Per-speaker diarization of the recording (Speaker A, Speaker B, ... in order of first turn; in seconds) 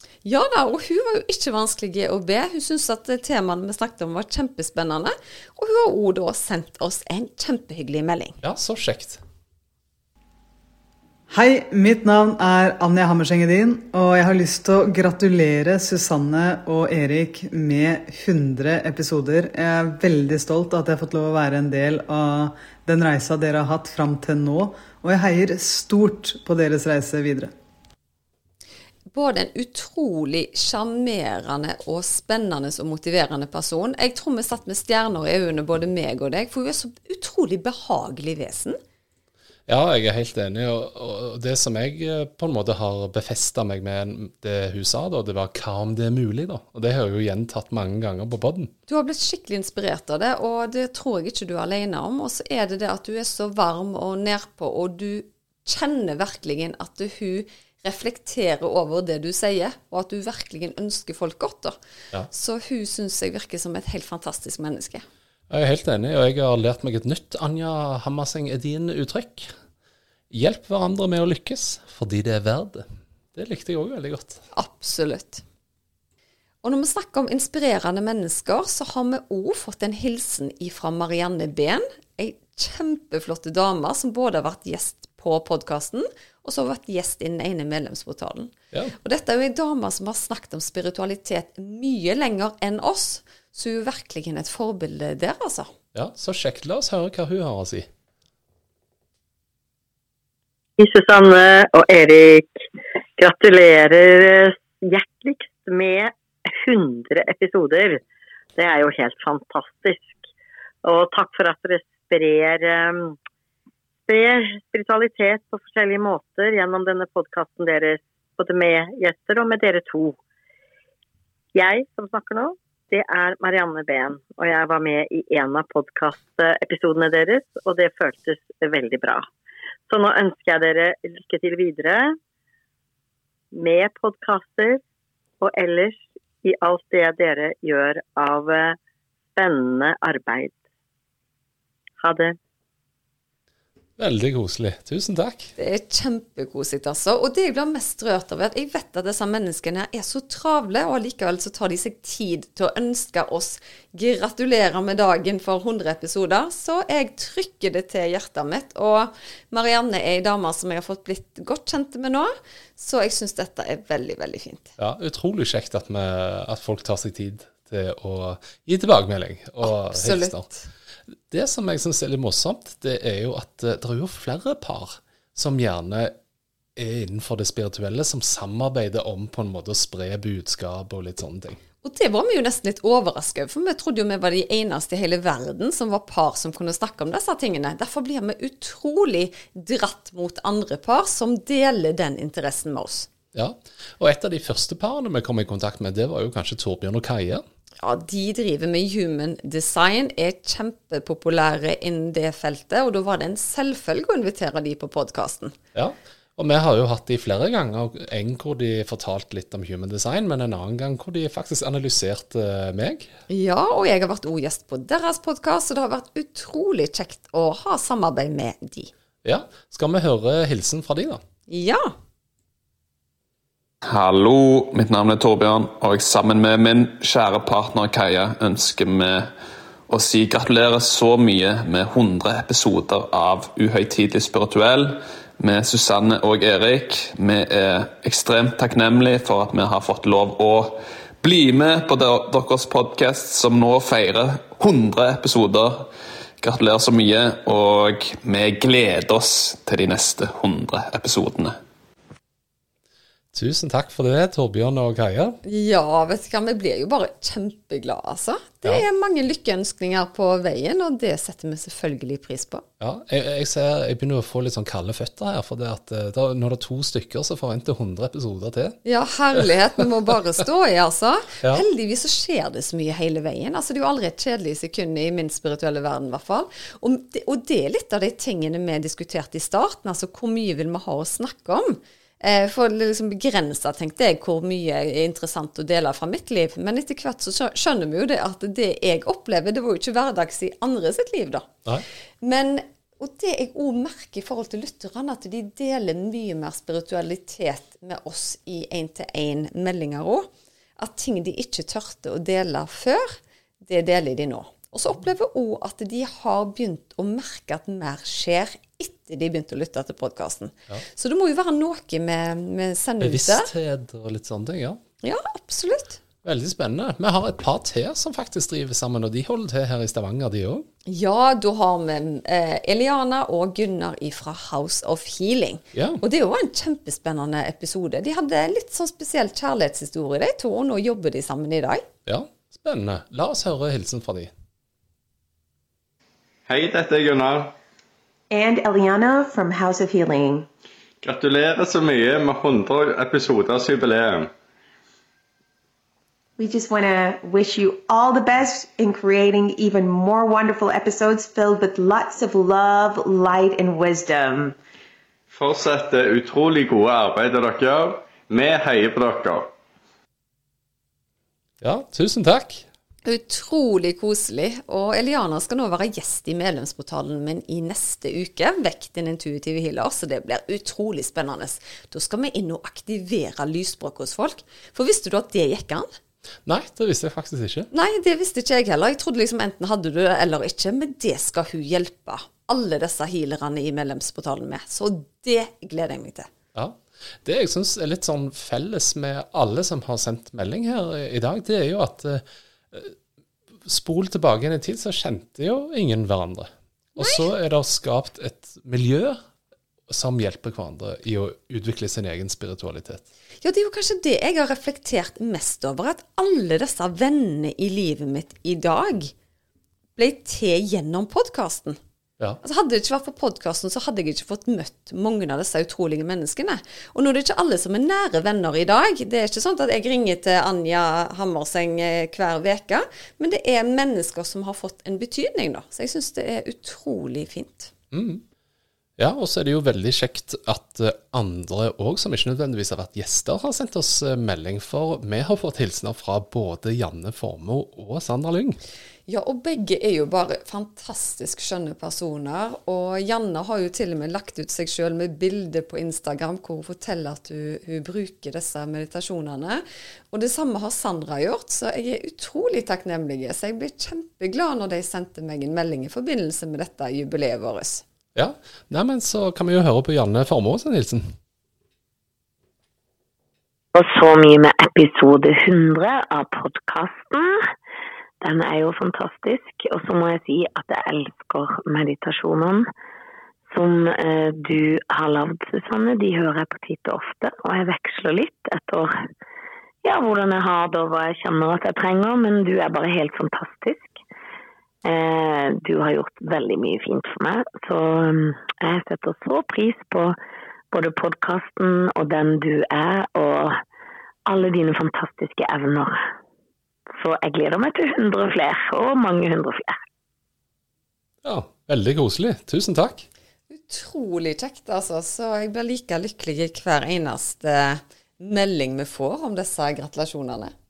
Speaker A: 0.2-8.4, 29.1-38.8, 48.9-61.8, 62.3-65.0, 74.5-75.4, 76.6-95.7, 145.6-164.7, 169.6-170.7, 181.8-193.1, 197.8-205.6, 213.3-218.9, 221.5-221.9, 255.5-262.6, 268.9-291.5, 292.2-300.3, 300.8-313.5, 315.0-316.0, 320.9-331.8, 363.1-375.9, 377.7-386.3, 397.0-397.2, 403.4-409.1, 410.0-411.8, 412.4-427.7, 439.1-457.8, 503.5-510.5
Speaker B: 8.4-9.2, 39.7-48.7, 65.5-69.5, 70.3-74.4, 95.9-97.9, 144.0-145.5, 164.8-170.5, 171.3-176.1, 176.8-181.6, 193.3-197.4, 205.7-213.1, 219.2-221.2, 253.3-255.4, 262.8-268.8, 313.0-314.8, 316.2-320.6, 325.7-326.0, 332.1-334.3, 361.6-362.6, 376.5-377.7, 386.6-392.9, 393.6-399.2, 399.9-403.1, 427.9-428.2, 429.0-438.6, 458.1-461.1, 501.2-503.1
Speaker C: 11.3-27.5
Speaker D: 100.8-102.6, 103.2-108.0, 108.6-110.2, 110.8-113.2, 114.1-120.2, 121.5-129.3, 129.9-132.2, 133.5-134.8, 135.4-138.8, 139.3-140.6, 142.0-142.3
Speaker E: 223.8-229.3, 229.9-245.9, 246.4-251.6
Speaker F: 336.5-337.6, 341.0-344.3, 355.3-359.5
Speaker G: 338.3-340.5, 346.4-354.6
Speaker H: 463.7-467.5, 468.2-472.7, 473.5-478.9, 479.8-484.0, 484.9-490.2, 490.7-493.6, 494.3-496.0, 497.0-499.8